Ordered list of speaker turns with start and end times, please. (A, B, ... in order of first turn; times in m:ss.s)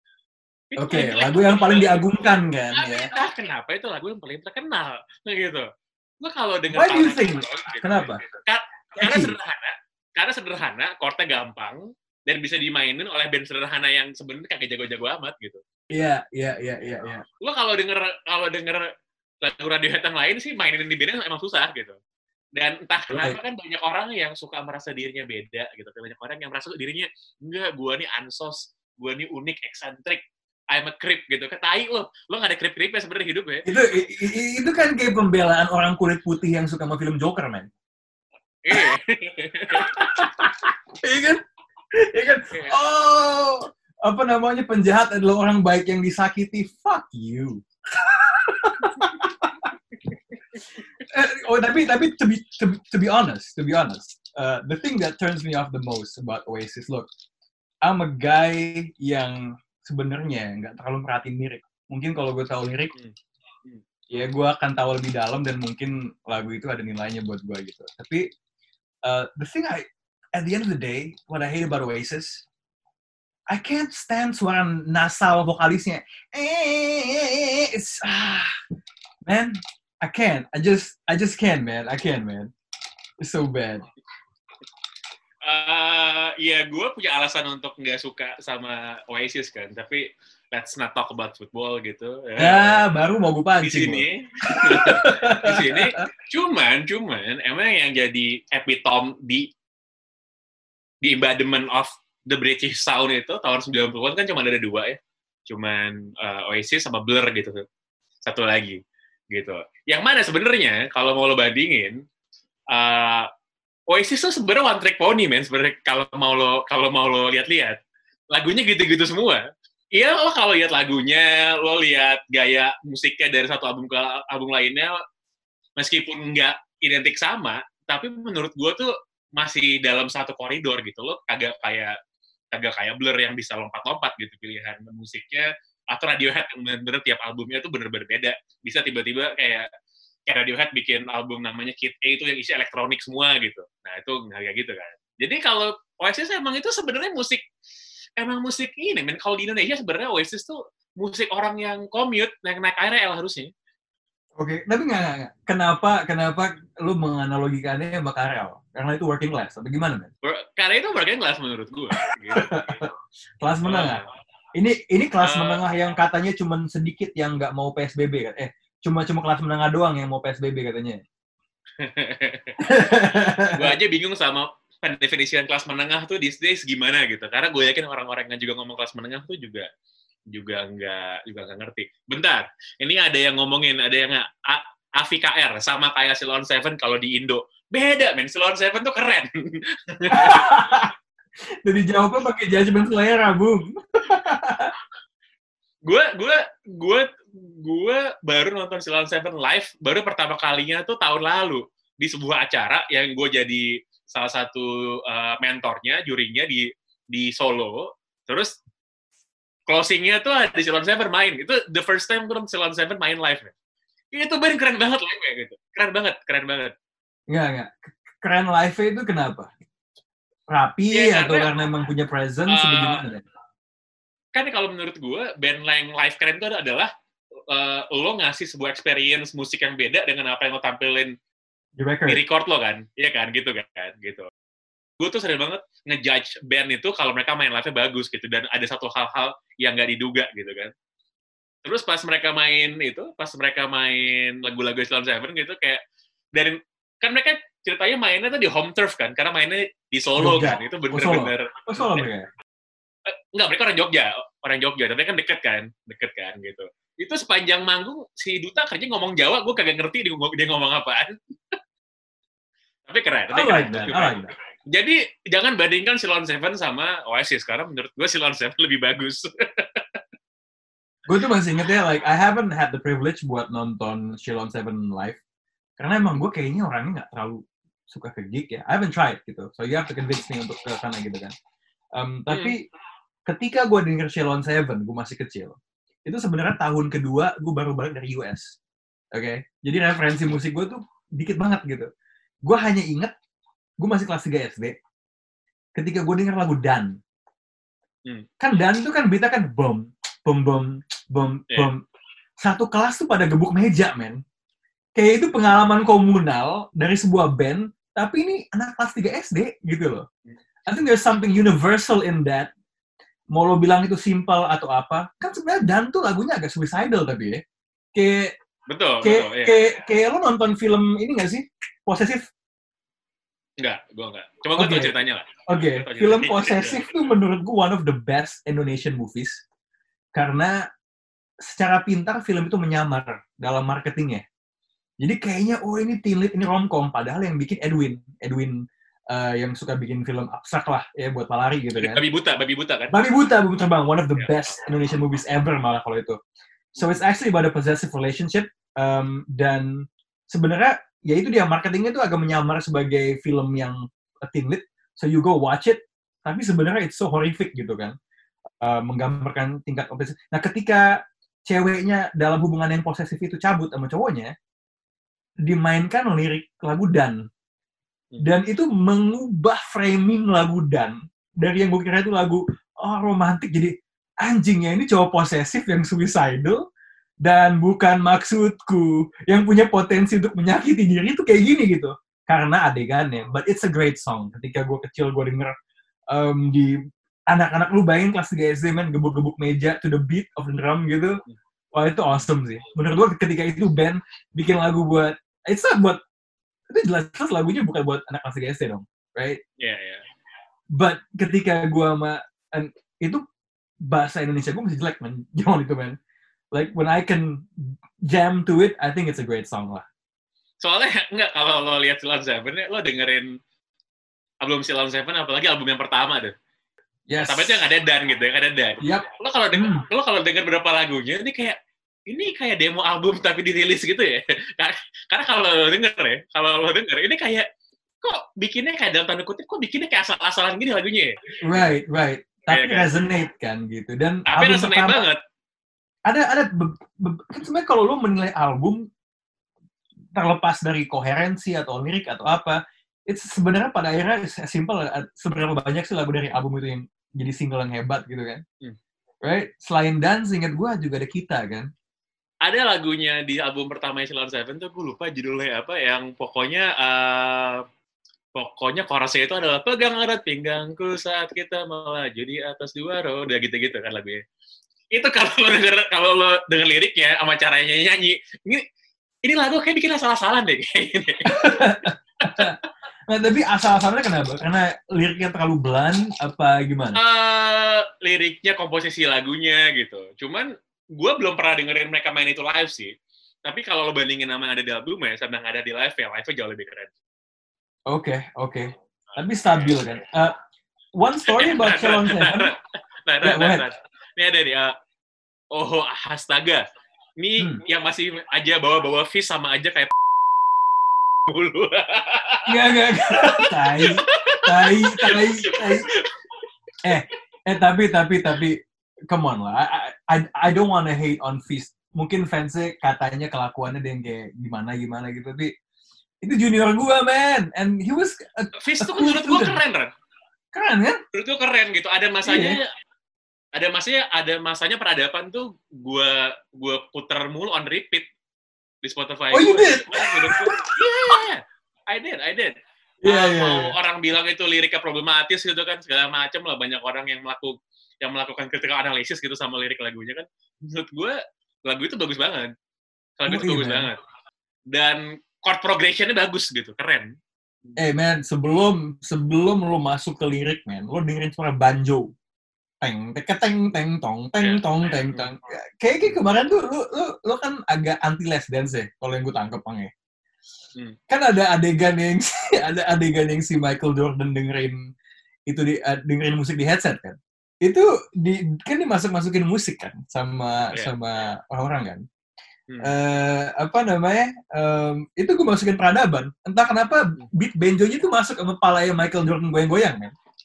0:00.7-0:05.6 A
0:00.8-0:03.1 B
0:06.2-0:15.6 A
0:06.7-0:08.2 B
0:09.0-0:09.4 B
0:15.9-0:17.2 B
0:17.4-0:18.9 A
0:19.4-0:22.0 A
0:22.6-0:33.6 A
0:23.1-0:23.4 B
0:33.6-0:37.7 B
0:38.6-0:40.0 A
0:39.7-0:41.4 B
0:42.0-0:49.5 B
0:49.0-0:49.2 A
0:51.1-0:57.1 B
0:57.8-1:02.9 B
1:04.1-1:08.2 B
1:09.0-1:09.8 B
1:10.4-1:12.4 B
1:13.5-1:18.5 B
1:19.2-1:22.5 B
1:23.2-1:23.8 B
1:25.4-1:32.9 A
1:32.4-1:36.0 B
1:33.6-1:39.4 A
1:41.0-1:47.6 A
1:48.2-1:48.8 A
1:49.3-1:51.9 A
1:52.7-1:53.3 A
1:53.9-1:57.8 A
1:58.3-1:59.4 A
2:00.0-2:04.9 A
2:05.8-2:11.9 A
2:12.5-2:19.7 A
2:20.3-2:27.4 A
2:28.2-2:33.5 A
2:34.4-2:40.1 B
2:40.2-2:42.8 A
2:42.3-2:42.9 B
2:43.4-2:44.0 B
2:43.6-2:44.0 A
2:44.6-2:51.0 B
2:45.2-2:45.6 A
2:51.8-2:53.0 A
2:52.6-2:53.8 B
2:53.5-2:59.7 A
3:00.3-3:09.3 A
3:09.9-3:10.5 A
3:10.1-3:10.9 B
3:11.6-3:14.7 B
3:15.9-3:28.5 A
3:29.7-3:33.5 A
3:34.1-3:36.7 A
3:37.3-3:39.5 B
3:40.5-3:43.2 B
3:40.9-3:41.5 A
3:42.5-3:43.0 A
3:44.4-3:46.9 A
3:47.5-3:51.1 A
3:51.8-3:52.2 B
3:52.1-3:54.3 A
3:55.0-4:00.7 A
4:01.6-4:05.8 A
4:06.4-4:12.1 A
4:10.2-4:12.3 B
4:13.3-4:21.5 A
4:22.9-4:30.0 A
4:23.3-4:24.3 B
4:31.1-4:35.2 B
4:35.8-4:41.3 B
4:42.0-4:42.6 B
4:42.3-4:42.5 A
4:43.3-4:48.5 B
4:49.1-4:51.9 B
4:52.4-4:53.1 B
4:53.8-4:54.8 B
4:55.8-4:57.0 B
4:58.4-5:01.8 B
5:02.4-5:04.2 B
5:05.0-5:10.0 B
5:10.7-5:12.5 B
5:13.3-5:17.4 B
5:17.9-5:18.3 B
5:18.7-5:19.6 A
5:19.0-5:22.2 B
5:23.6-5:26.9 A
5:24.6-5:24.9 B
5:25.5-5:29.4 B
5:30.1-5:30.6 B
5:31.5-5:34.2 B
5:35.0-5:38.5 B
5:39.1-5:42.0 B
5:41.8-5:43.0 A
5:42.9-5:46.2 B
5:44.1-5:44.6 A
5:46.8-5:49.7 B
5:50.3-5:57.9 B
5:58.6-6:00.9 B
6:01.5-6:04.3 B
6:05.4-6:07.2 B
6:08.2-6:16.6 B
6:17.2-6:25.5 B
6:26.1-6:26.8 B
6:27.3-6:31.2 B
6:31.7-6:36.0 B
6:36.7-6:39.4 B
6:39.6-6:40.0 A
6:40.8-6:43.2 B
6:43.9-6:46.0 B
6:46.5-6:47.4 B
6:48.1-6:49.8 B
6:50.6-6:53.2 A
6:54.4-6:56.3 A
6:57.1-6:57.7 B
6:57.2-7:01.6 A
6:58.8-6:59.9 B
7:02.1-7:07.4 A
7:08.0-7:11.7 A
7:11.4-7:15.1 B
7:12.5-7:12.9 A
7:14.3-7:15.2 A
7:16.1-7:18.8 B
7:20.1-7:22.6 B
7:23.1-7:28.4 B
7:29.2-7:31.7 B
7:32.4-7:37.6 A
7:38.4-7:44.2 A
7:44.9-7:48.6 A
7:49.2-7:51.7 A
7:51.3-7:52.5 B
7:52.2-7:52.5 A
7:53.1-7:57.0 B
7:56.9-8:00.5 A
8:01.0-8:02.9 A
8:03.4-8:06.9 A
8:07.9-8:10.4 B
8:11.0-8:12.5 B
8:11.3-8:12.5 A
8:13.1-8:14.7 A
8:13.2-8:13.6 B
8:15.5-8:16.6 A
8:17.2-8:19.9 A
8:17.4-8:17.6 B
8:21.3-8:26.1 A
8:22.4-8:25.9 B
8:26.8-8:28.6 B
8:29.1-8:35.5 B
8:36.2-8:39.6 B
8:38.6-8:39.9 A
8:40.5-8:41.0 B
8:41.1-8:42.7 A
8:42.2-8:42.6 B
8:43.6-8:48.1 A
8:48.8-8:52.5 A
8:49.3-8:50.5 B
8:53.0-8:53.8 B
8:53.0-9:02.5 A
9:03.2-9:04.0 A
9:03.2-9:03.9 B
9:04.7-9:07.1 A
9:07.8-9:12.1 B
9:12.8-9:19.9 B
9:14.4-9:15.3 A
9:21.1-9:24.8 B
9:25.5-9:32.0 B
9:30.7-9:30.9 A
9:32.8-9:40.1 B